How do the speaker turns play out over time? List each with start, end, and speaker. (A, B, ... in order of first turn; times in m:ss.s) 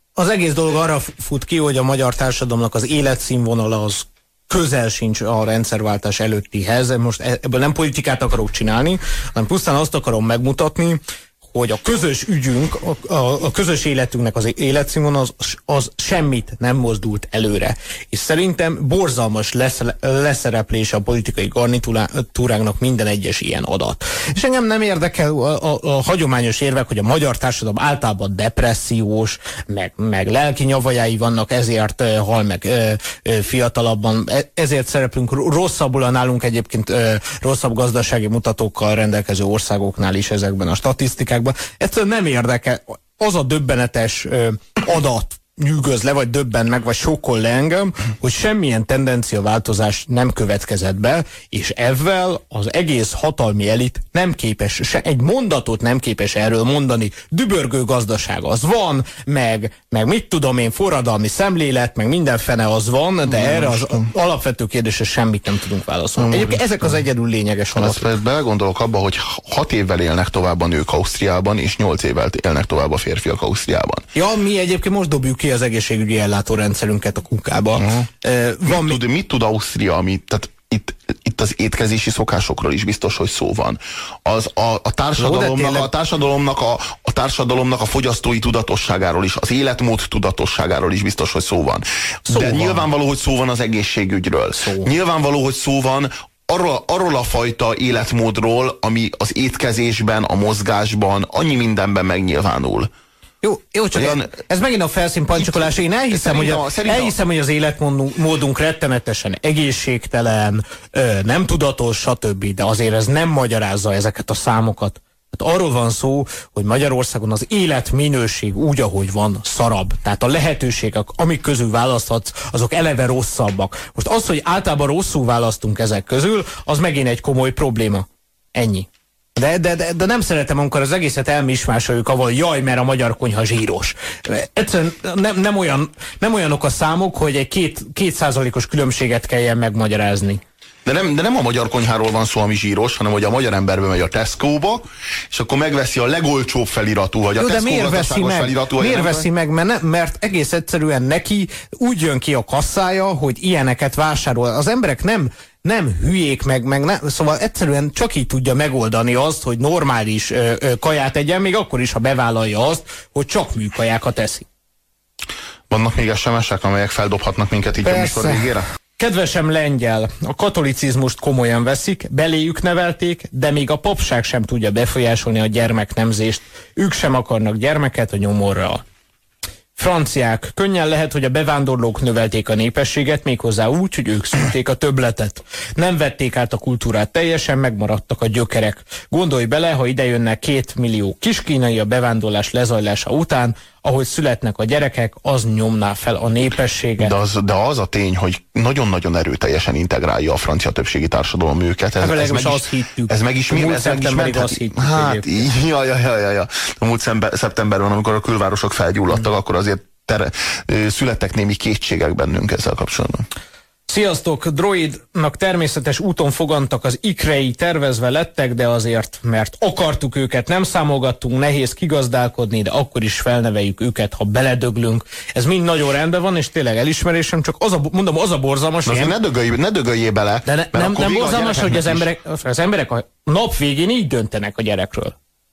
0:00.2-1:08.0 A
1:03.3-1:04.0 B
1:06.2-1:07.0 B
1:07.7-1:14.1 B
1:14.1-1:19.0 A
1:17.8-1:18.1 B
1:18.6-1:42.9 B
1:25.2-1:25.9 A
1:32.3-1:32.9 A
1:34.6-1:34.9 A
1:43.4-2:20.4 A
1:43.9-1:44.4 B
1:45.3-1:47.2 B
2:20.8-2:29.3 B
2:27.4-2:44.4 A
2:45.7-2:48.6 B
2:47.8-2:58.8 A
2:59.8-3:17.1 A
3:17.0-3:33.2 B
3:22.0-3:25.5 A
3:33.9-3:49.1 A
3:48.8-3:52.1 B
3:50.4-3:55.1 A